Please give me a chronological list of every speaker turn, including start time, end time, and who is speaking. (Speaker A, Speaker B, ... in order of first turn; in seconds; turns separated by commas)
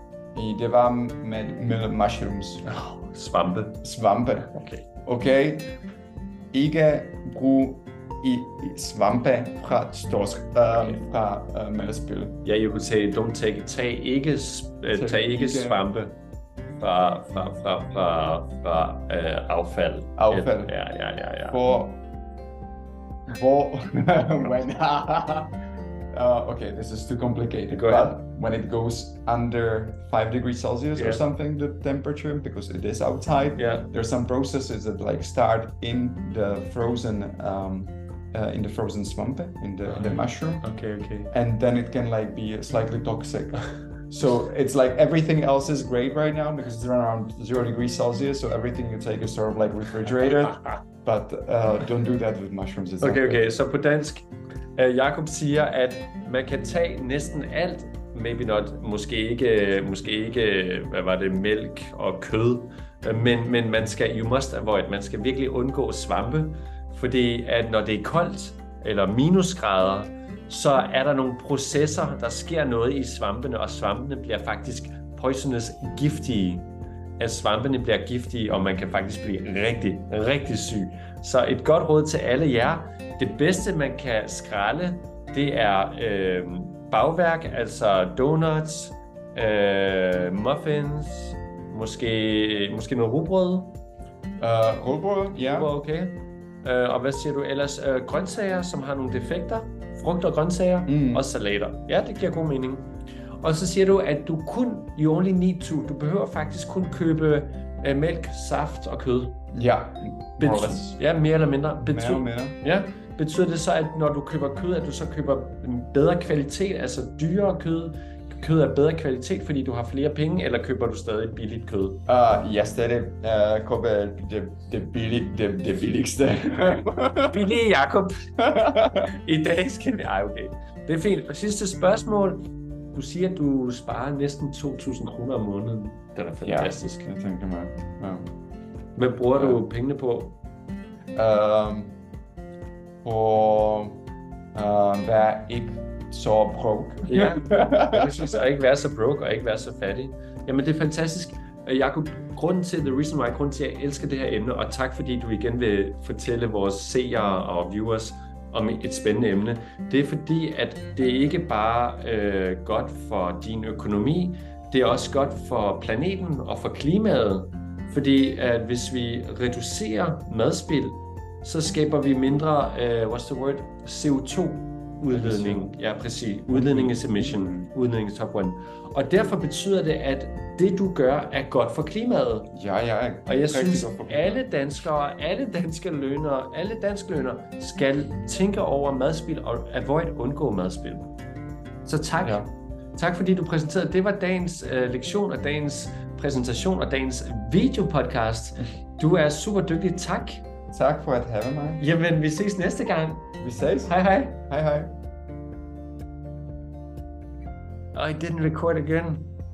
Speaker A: 0.3-2.7, Speaker B: 2.6-3.8, Speaker A: 3.8-4.5, Speaker B: 4.5-4.8, Speaker A: 5.0-5.7, Speaker A: 6.5-12.4, Speaker B: 12.4-16.2, Speaker A: 14.9-15.8, Speaker B: 16.8-21.6, Speaker A: 20.2-20.8, Speaker A: 21.5-22.0, Speaker A: 23.3-25.5, Speaker A: 26.1-40.7, Speaker B: 27.7-28.2, Speaker B: 30.9-31.2, Speaker B: 33.6-33.9, Speaker B: 39.9-41.3, Speaker A: 41.3-53.5, Speaker B: 53.0-93.7, Speaker A: 94.4-95.7, Speaker B: 95.3-102.9, Speaker A: 100.9-101.3, Speaker B: 103.4-109.4, Speaker A: 109.5-111.0, Speaker B: 110.4-122.0, Speaker A: 111.8-112.6, Speaker A: 122.1-127.6, Speaker B: 127.3-128.3, Speaker A: 128.4-129.1, Speaker B: 129.0-137.1, Speaker A: 136.4-138.3, Speaker B: 139.0-140.4, Speaker A: 139.3-139.6, Speaker A: 141.2-142.0, Speaker A: 143.0-144.0, Speaker A: 144.5-148.3, Speaker B: 147.1-182.5, Speaker A: 175.1-175.8, Speaker A: 176.5-177.7, Speaker A: 182.5-184.4, Speaker B: 183.3-191.1, Speaker B: 191.8-200.4, Speaker A: 192.2-192.5, Speaker A: 200.7-201.8, Speaker B: 201.8-203.3, Speaker A: 203.4-205.0, Speaker B: 203.9-204.4, Speaker B: 207.9-209.3